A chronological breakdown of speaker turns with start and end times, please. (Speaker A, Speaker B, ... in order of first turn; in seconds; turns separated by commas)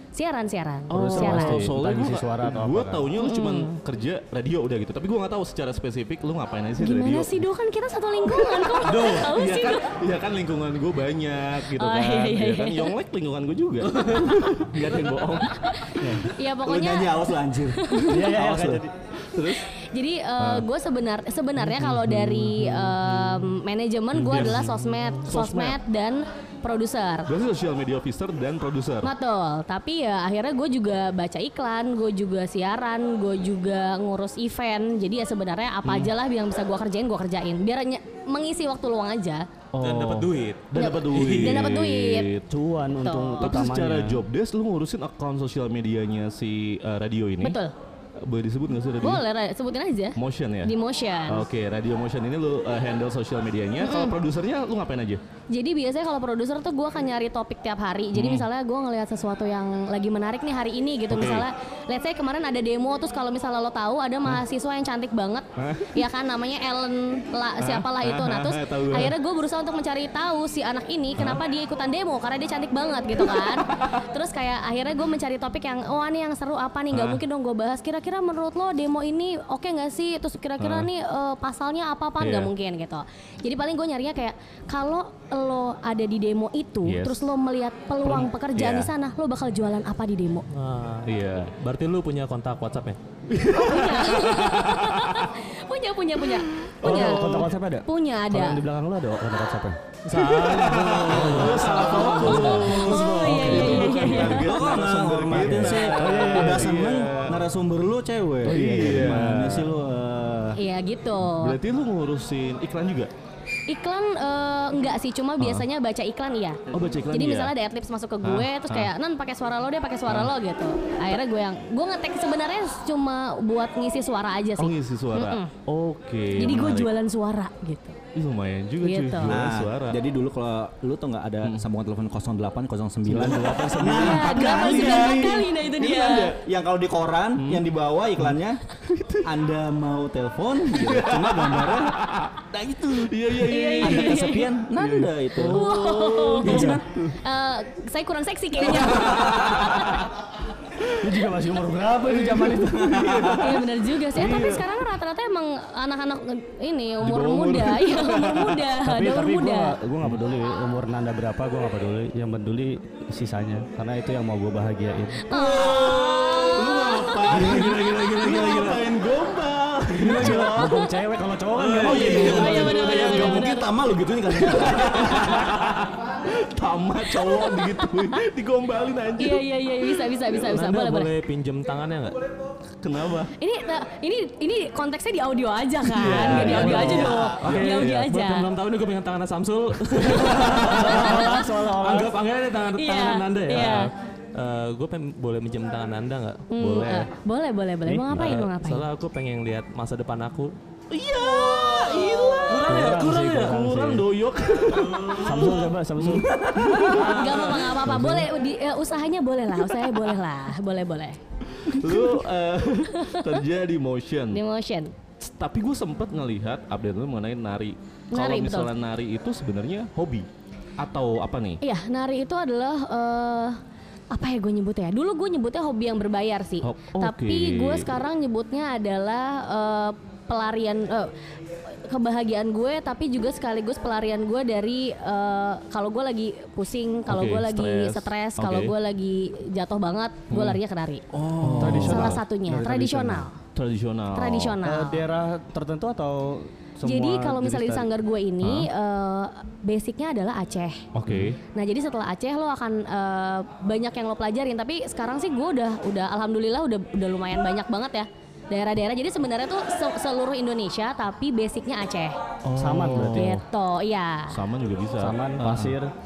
Speaker A: 0.1-1.7, Speaker B: 0.9-3.1, Speaker C: 0.9-7.4, Speaker A: 3.2-3.8, Speaker A: 6.8-10.0, Speaker C: 8.3-16.1, Speaker A: 11.7-12.9, Speaker A: 15.6-18.4, Speaker B: 16.0-16.3, Speaker D: 16.6-18.8, Speaker B: 18.1-18.9, Speaker C: 19.2-19.7, Speaker A: 19.5-27.3, Speaker C: 20.4-20.7, Speaker C: 21.7-23.4, Speaker C: 24.2-25.8, Speaker C: 27.3-29.1, Speaker A: 29.0-39.5, Speaker C: 35.8-36.1, Speaker C: 39.8-42.5, Speaker E: 39.8-41.6, Speaker A: 40.7-42.3, Speaker B: 42.5-44.2, Speaker A: 43.0-43.6, Speaker C: 43.4-47.6, Speaker A: 47.4-47.7, Speaker C: 48.2-49.2, Speaker A: 49.0-51.5, Speaker C: 50.2-50.7, Speaker C: 51.3-55.2, Speaker A: 53.8-54.2, Speaker A: 55.5-90.5, Speaker C: 58.1-58.5, Speaker C: 61.1-61.5, Speaker C: 65.6-66.0, Speaker C: 67.6-69.2, Speaker C: 71.2-71.4, Speaker C: 73.2-74.0, Speaker C: 76.9-77.2, Speaker C: 80.6-80.9, Speaker C: 82.2-82.5, Speaker C: 86.8-87.3, Speaker C: 88.0-88.9, Speaker E: 90.5-93.0, Speaker C: 91.0-91.5, Speaker C: 93.3-95.3, Speaker A: 93.5-98.6, Speaker C: 96.6-97.1, Speaker B: 96.8-99.8, Speaker E: 100.0-102.7, Speaker C: 100.1-107.5, Speaker B: 101.1-104.3, Speaker A: 101.7-104.5, Speaker D: 104.0-110.6, Speaker B: 105.3-106.8, Speaker C: 108.4-109.7, Speaker B: 108.5-109.2, Speaker A: 110.5-111.6, Speaker C: 111.2-113.1, Speaker A: 113.7-125.5, Speaker C: 115.4-115.7, Speaker C: 116.7-117.5, Speaker C: 118.2-118.9, Speaker C: 120.1-120.3, Speaker C: 124.6-126.9, Speaker A: 126.4-128.0, Speaker C: 128.2-130.0, Speaker A: 128.8-129.4, Speaker D: 129.3-135.4, Speaker C: 133.1-136.4, Speaker A: 133.7-136.3, Speaker D: 136.4-138.7, Speaker C: 137.4-137.7, Speaker C: 138.8-139.3, Speaker D: 139.2-142.0, Speaker C: 140.7-147.2, Speaker D: 142.8-143.1, Speaker A: 143.5-144.5, Speaker D: 143.8-145.8, Speaker A: 145.4-150.1, Speaker B: 146.4-146.8, Speaker C: 148.6-150.0, Speaker C: 150.8-151.1, Speaker B: 151.0-153.2, Speaker C: 152.0-154.7, Speaker D: 152.6-153.5, Speaker A: 153.4-159.8, Speaker C: 157.0-158.7, Speaker B: 158.8-165.3, Speaker A: 165.2-167.3, Speaker C: 165.3-170.7, Speaker E: 167.2-168.8, Speaker D: 167.4-170.8, Speaker B: 169.9-172.8, Speaker E: 171.6-172.3, Speaker C: 171.7-173.7, Speaker D: 171.8-175.3, Speaker A: 171.9-173.7, Speaker C: 174.3-179.4, Speaker A: 174.4-175.4, Speaker A: 177.1-178.2, Speaker A: 179.2-181.1, Speaker E: 180.3-182.2, Speaker C: 182.8-183.3, Speaker A: 183.4-188.5, Speaker C: 185.9-188.1, Speaker E: 186.0-197.1, Speaker B: 186.6-187.1, Speaker B: 190.1-192.2, Speaker A: 190.8-191.5, Speaker A: 192.8-193.9, Speaker B: 193.6-193.8, Speaker A: 196.5-198.8, Speaker B: 197.8-198.2, Speaker E: 198.1-200.5, Speaker C: 200.9-207.2, Speaker D: 201.2-202.7, Speaker E: 202.5-203.6, Speaker B: 202.7-204.1, Speaker E: 204.9-205.5, Speaker B: 205.1-206.4, Speaker D: 206.3-206.7, Speaker A: 206.8-211.2, Speaker E: 206.9-207.7, Speaker B: 207.9-208.3, Speaker C: 211.5-214.4, Speaker A: 211.8-212.2, Speaker A: 212.9-213.4, Speaker A: 214.3-214.9, Speaker C: 215.2-220.3, Speaker A: 218.1-218.7, Speaker C: 220.8-221.6, Speaker A: 221.6-223.6, Speaker A: 224.1-231.1, Speaker C: 226.6-227.9, Speaker A: 231.8-241.0, Speaker C: 237.1-238.7, Speaker C: 240.3-240.6, Speaker C: 241.2-242.2, Speaker B: 241.4-243.3, Speaker A: 241.7-243.4, Speaker C: 243.5-244.6, Speaker A: 244.1-245.1, Speaker B: 244.6-247.9, Speaker A: 246.8-250.9, Speaker C: 248.4-248.7, Speaker C: 250.9-251.4, Speaker A: 251.5-262.2, Speaker C: 262.4-263.4, Speaker B: 262.6-263.4, Speaker A: 263.1-264.4, Speaker C: 264.3-265.8, Speaker B: 265.0-265.9